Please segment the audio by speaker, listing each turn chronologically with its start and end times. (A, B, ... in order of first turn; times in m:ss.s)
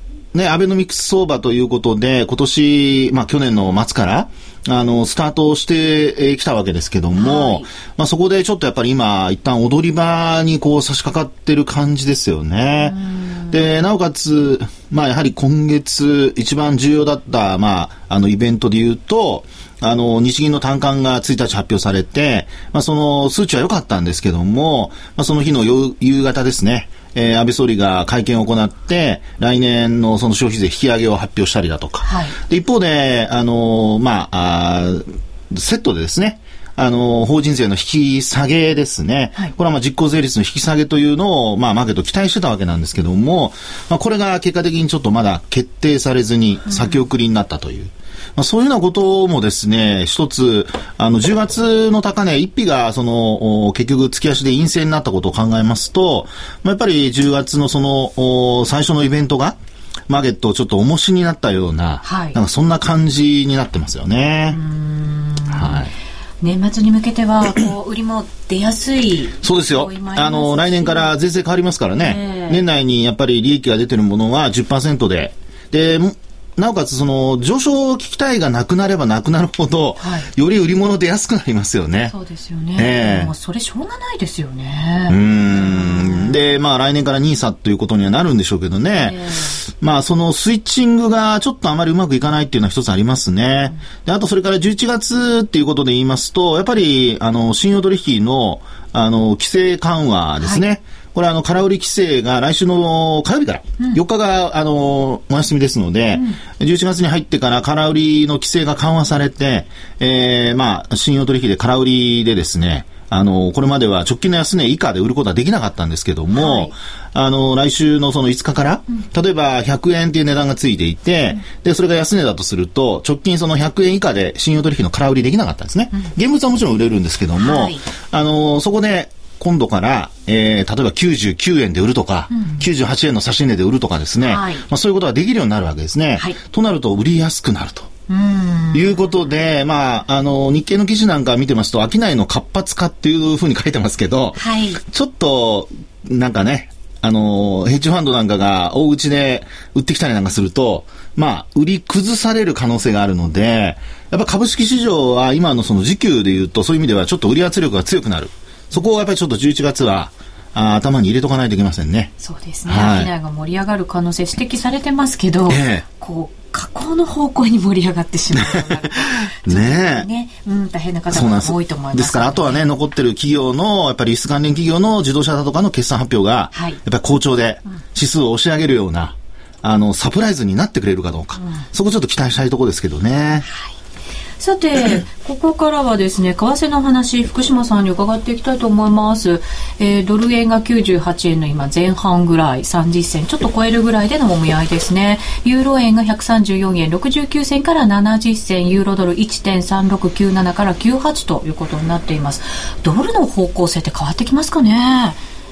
0:00.3-0:13.0 A
0:07.2-0:07.7 B
0:12.8-0:13.6 B
0:13.5-0:59.6 A
0:32.0-0:32.4 B
0:46.7-0:47.0 B
1:00.1-1:04.6 A
1:02.0-1:02.4 B
1:04.5-1:05.8 B
1:05.5-1:05.9 A
1:06.4-1:11.1 B
1:09.4-1:22.1 A
1:12.0-1:12.6 B
1:20.0-1:20.3 B
1:22.1-1:26.4 B
1:22.8-1:23.3 A
1:25.1-2:17.9 A
1:29.0-1:29.6 B
1:56.3-1:56.7 B
2:07.4-2:07.8 B
2:12.3-2:12.6 B
2:14.2-2:14.6 B
2:18.1-2:19.0 B
2:18.7-2:42.1 A
2:24.4-2:24.8 B
2:42.2-2:52.6 B
2:42.7-2:43.1 A
2:45.5-2:45.9 A
2:49.0-2:50.1 A
2:51.1-3:03.5 A
2:56.5-2:56.8 B
3:04.4-3:25.2 B